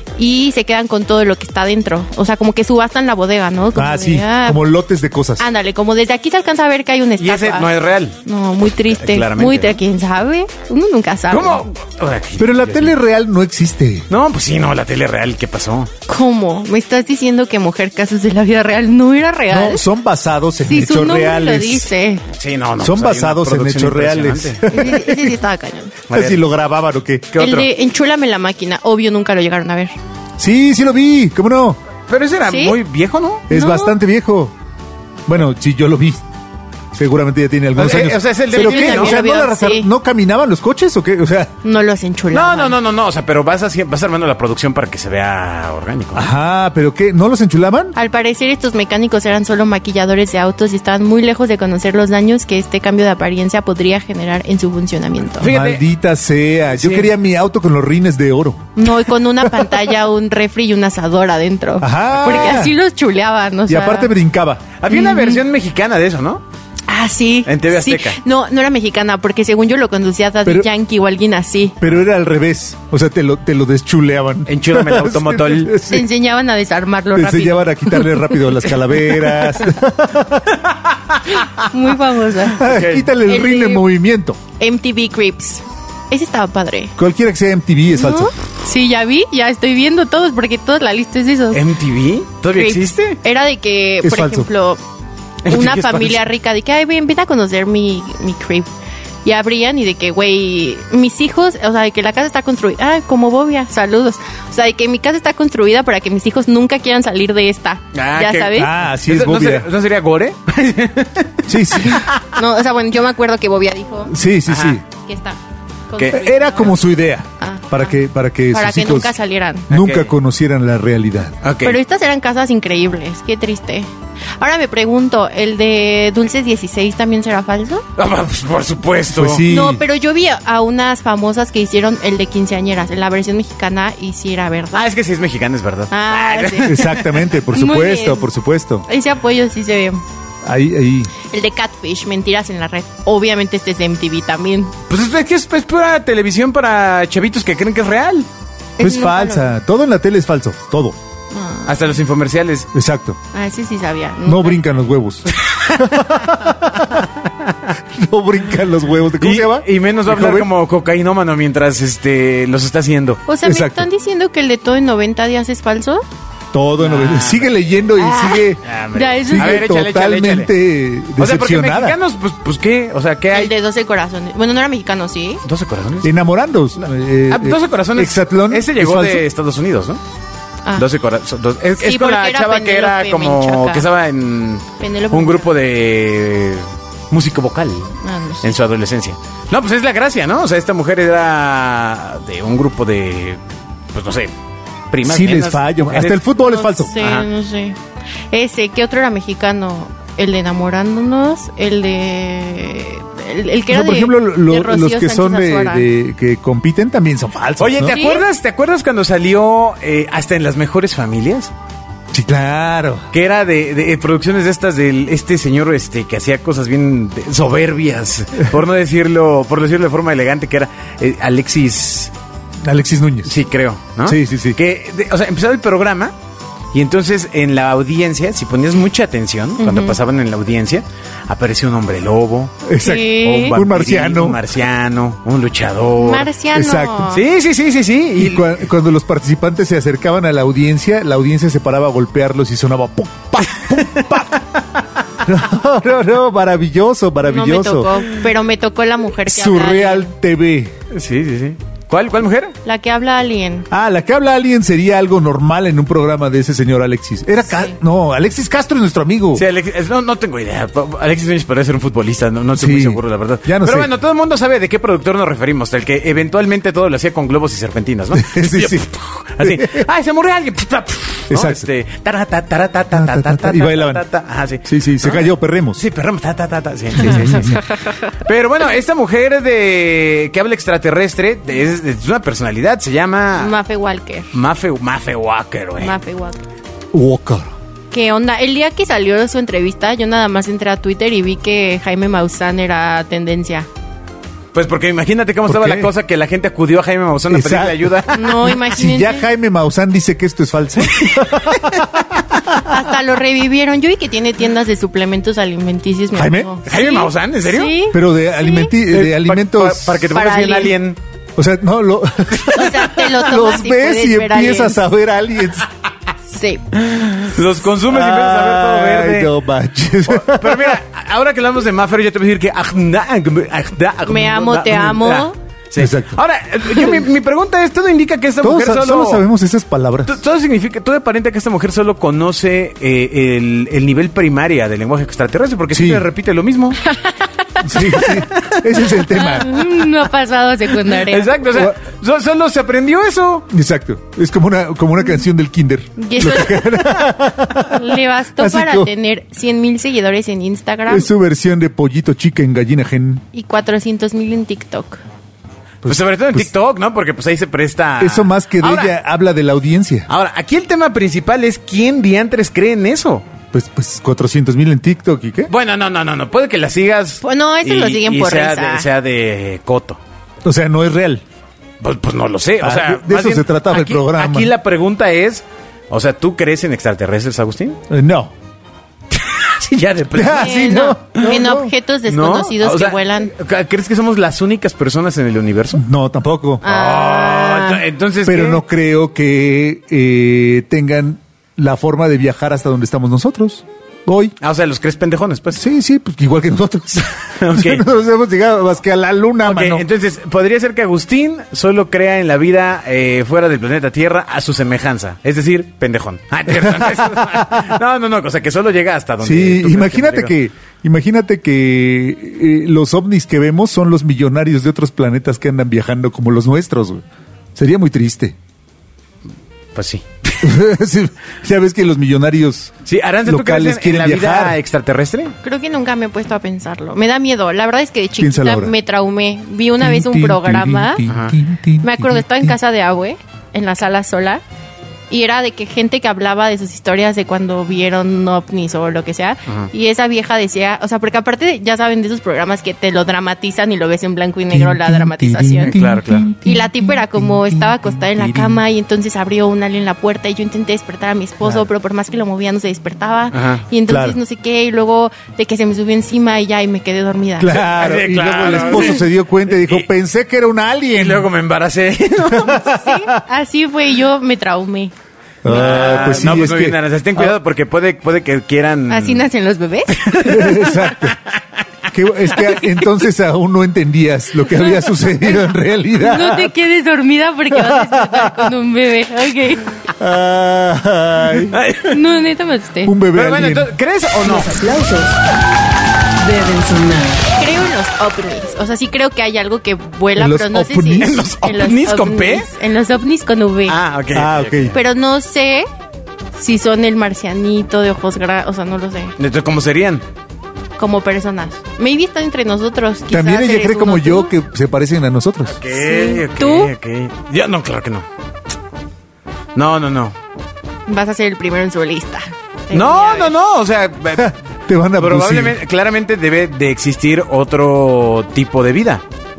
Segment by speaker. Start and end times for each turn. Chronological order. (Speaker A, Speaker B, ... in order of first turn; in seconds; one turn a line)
Speaker A: 0.2-4.6
Speaker B: 3.8-5.4
Speaker A: 5.4-7.7
Speaker C: 7.2-8.2
Speaker A: 8.2-11.7
Speaker C: 8.8-9.8
Speaker C: 11.3-12.9
Speaker B: 12.4-14.1
Speaker C: 14.1-15.9
Speaker A: 16.1-19.8
Speaker B: 19.5-21.9
Speaker A: 20.6-22.2
Speaker C: 22.3-24.6
Speaker B: 22.8-25.4
Speaker A: 24.7-26.0
Speaker C: 26.1-26.4
Speaker B: 26.1-27.4
Speaker C: 27.3-27.7
Speaker A: 27.4-29.9
Speaker B: 30.4-31.8
Speaker C: 32.1-33.5
Speaker A: 32.5-32.8
Speaker B: 33.5-34.5
Speaker A: 33.5-34.0
Speaker B: 35.3-36.2
Speaker B: 36.9-41.5
Speaker C: 37.8-39.2
Speaker A: 38.5-39.9
Speaker A: 41.6-42.8
Speaker C: 42.3-46.3
Speaker B: 46.1-47.9
Speaker A: 48.0-55.5
Speaker C: 55.4-55.8
Speaker B: 55.4-58.9
Speaker C: 56.8-57.1
Speaker A: 58.8-64.1
Speaker B: 59.4-59.9
Speaker B: 61.8-62.8
Speaker C: 62.1-62.6
Speaker B: 63.7-64.7
Speaker C: 64.8-66.4
Speaker A: 64.9-65.4
Speaker A: 66.9-71.8
Speaker C: 67.5-68.2
Speaker B: 71.8-76.1
Speaker C: 74.5-75.8
Speaker A: 75.9-78.5
Speaker B: 77.1-80.5
Speaker C: 80.6-81.5
Speaker A: 81.3-82.6
Speaker B: 82.5-84.4
Speaker C: 82.6-83.1
Speaker A: 83.2-83.8
Speaker A: 84.6-87.0
Speaker B: 87.0-88.3
Speaker A: 87.9-91.6
Speaker C: 91.5-93.2
Speaker A: 92.5-94.8
Speaker B: 94.0-94.5
Speaker A: 95.5-98.7
Speaker C: 95.5-96.2
Speaker A: 99.2-108.7
Speaker C: 107.9-112.2
Speaker B: 108.5-109.7
Speaker B: 111.5-112.1
Speaker A: 112.3-114.1
Speaker B: 114.1-114.8
Speaker C: 114.5-114.8
Speaker A: 115.0-115.4
Speaker A: 115.9-116.7
Speaker C: 116.0-116.6
Speaker B: 116.1-119.1
Speaker A: 117.4-117.9
Speaker A: 118.5-119.7
Speaker C: 119.7-120.1
Speaker B: 119.7-121.4
Speaker C: 121.4-121.8
Speaker A: 121.6-127.8
Speaker C: 128.0-129.4
Speaker B: 129.1-129.8
Speaker A: 129.5-134.9
Speaker C: 134.7-137.2
Speaker A: 135.9-137.0
Speaker B: 136.6-138.8
Speaker A: 137.5-138.3
Speaker A: 138.9-140.0
Speaker B: 140.4-141.1
Speaker A: 141.2-144.7
Speaker C: 144.9-148.3
Speaker A: 148.8-149.5
Speaker B: 148.8-151.0
Speaker A: 151.3-151.9
Speaker C: 151.7-152.7
Speaker B: 152.7-153.2
Speaker A: 153.3-154.6
Speaker B: 154.2-157.1
Speaker C: 155.3-156.1
Speaker B: 157.9-160.5
Speaker C: 159.2-163.2
Speaker A: 163.3-166.0
Speaker B: 163.4-163.9
Speaker B: 166.5-168.6
Speaker C: 166.8-167.5
Speaker A: 168.0-169.7
Speaker C: 168.6-170.5
Speaker B: 169.3-172.0
Speaker C: 171.2-173.5
Speaker A: 173.3-175.4
Speaker C: 175.4-176.1
Speaker B: 176.0-179.2
Speaker C: 176.8-180.0
Speaker C: 180.8-193.4
Speaker A: 181.8-183.9
Speaker A: 184.8-185.5
Speaker A: 188.0-188.6
Speaker C: 193.9-194.3
Speaker C: 194.9-196.2
Speaker B: 195.0-196.9
Speaker A: 196.4-197.8
Speaker C: 196.9-197.2
Speaker A: 198.3-205.9
Speaker B: 203.7-208.0
Speaker C: 207.6-211.5
Speaker A: 207.9-208.2
Speaker B: 212.1-213.1
Speaker C: 213.1-222.1
Speaker B: 222.6-223.4
Speaker C: 223.2-226.1
Speaker B: 224.0-224.6
Speaker C: 226.7-236.3
Speaker A: 229.6-230.0
Speaker B: 232.6-234.4
Speaker A: 232.8-233.6
Speaker A: 236.0-237.2
Speaker B: 236.5-237.1
Speaker C: 237.1-238.6
Speaker B: 238.2-244.4
Speaker C: 243.7-244.1
Speaker B: 245.2-247.9
Speaker A: 247.2-250.1
Speaker B: 249.2-250.7
Speaker C: 250.9-252.6
Speaker A: 252.6-253.7
Speaker B: 253.7-259.4
Speaker C: 259.3-283.5
Speaker B: 262.5-263.9
Speaker B: 268.1-268.9
Speaker B: 269.4-269.9
Speaker B: 271.3-271.7
Speaker B: 272.9-274.0
Speaker B: 274.6-275.8
Speaker B: 277.0-277.6
Speaker A: 277.0-278.1
Speaker A: 283.4-284.3
Speaker C: 284.3-285.9
Speaker A: 285.8-286.4
Speaker B: 286.9-287.5
Speaker A: 287.9-293.7
Speaker C: 294.5-298.6
Speaker B: 295.5-295.9
Speaker B: 297.3-302.1
Speaker A: 298.1-299.3
Speaker C: 300.8-302.2
Speaker A: 302.6-308.7
Speaker B: 306.1-306.5
Speaker C: 306.6-307.8
Speaker B: 307.9-310.1
Speaker C: 308.9-311.0
Speaker A: 310.1-310.8
Speaker B: 311.4-315.7
Speaker C: 312.3-312.9
Speaker A: 312.5-314.9
Speaker A: 316.3-316.7
Speaker C: 316.8-319.3
Speaker B: 317.9-320.8
Speaker C: 320.1-329.2
Speaker A: 324.1-325.4
Speaker B: 325.8-326.2
Speaker B: 328.4-330.1
Speaker C: 330.1-336.8
Speaker B: 335.7-336.0
Speaker A: 336.9-338.1
Speaker B: 337.6-339.6
Speaker C: 337.9-338.6
Speaker A: 339.1-341.5
Speaker C: 340.9-343.5
Speaker B: 343.5-348.9
Speaker A: 346.0-347.0
Speaker A: 347.6-351.1
Speaker B: 350.9-353.2
Speaker A: 353.3-355.0
Speaker B: 355.8-356.5
Speaker C: 355.9-358.9
Speaker B: 358.0-360.1
Speaker C: 360.1-363.2
Speaker B: 363.5-365.5
Speaker C: 365.5-370.0
Speaker A: 367.2-368.9
Speaker B: 370.4-371.2
Speaker C: 371.8-377.8
Speaker B: 372.6-374.5
Speaker B: 377.9-378.3
Speaker C: 379.1-381.4
Speaker B: 380.1-381.7
Speaker A: 380.3-383.3
Speaker C: 382.1-385.8
Speaker B: 385.8-386.6
Speaker A: 386.6-387.8
Speaker C: 386.6-388.6
Speaker B: 388.2-394.4
Speaker C: 394.4-395.6
Speaker B: 395.5-399.8
Speaker C: 397.4-397.8
Speaker C: 399.4-410.3
Speaker B: 406.5-407.7
Speaker B: 409.2-417.0
Speaker B: 417.5-418.4
Speaker C: 419.8-420.5
Speaker B: 420.4-424.6
Speaker C: 422.9-425.4
Speaker A: 425.4-431.0
Speaker B: 428.2-428.7
Speaker B: 429.8-432.6
Speaker C: 431.1-431.4
Speaker A: 431.8-434.4
Speaker A: 435.1-445.8
Speaker B: 444.5-448.6
Speaker C: 445.7-446.3
Speaker A: 446.4-457.6
Speaker C: 453.3-453.6
Speaker B: 453.9-454.2
Speaker B: 457.4-461.3
Speaker C: 457.5-459.9
Speaker C: 461.0-462.6
Speaker B: 462.3-463.1
Speaker A: 462.6-464.9
Speaker B: 465.4-467.4
Speaker C: 465.5-469.2
Speaker A: 465.5-466.0
Speaker A: 468.9-470.6
Speaker C: 469.9-471.1
Speaker B: 470.2-471.2
Speaker B: 471.9-476.5
Speaker A: 474.8-475.3
Speaker A: 476.0-479.8
Speaker B: 477.5-478.5
Speaker B: 480.0-481.6
Speaker C: 481.4-482.0
Speaker A: 481.9-482.9
Speaker B: 482.8-483.7
Speaker C: 483.1-484.5
Speaker D: 484.2-485.2
Speaker D: 486.2-487.3
Speaker A: 487.4-493.8
Speaker B: 490.1-491.2
Speaker C: 491.0-492.5
Speaker C: 493.7-494.8
Speaker B: 494.1-494.8
Speaker A: 494.7-495.7
Speaker A: 496.4-499.1
Speaker C: 499.2-500.0
Speaker A: 500.8-504.3
Speaker B: 503.1-505.6
Speaker C: 505.5-508.1
Speaker A: 505.7-506.7
Speaker C: 509.5-510.1
Speaker A: 510.9-513.4
Speaker C: 512.7-514.3
Speaker B: 514.1-515.6
Speaker C: 515.0-519.0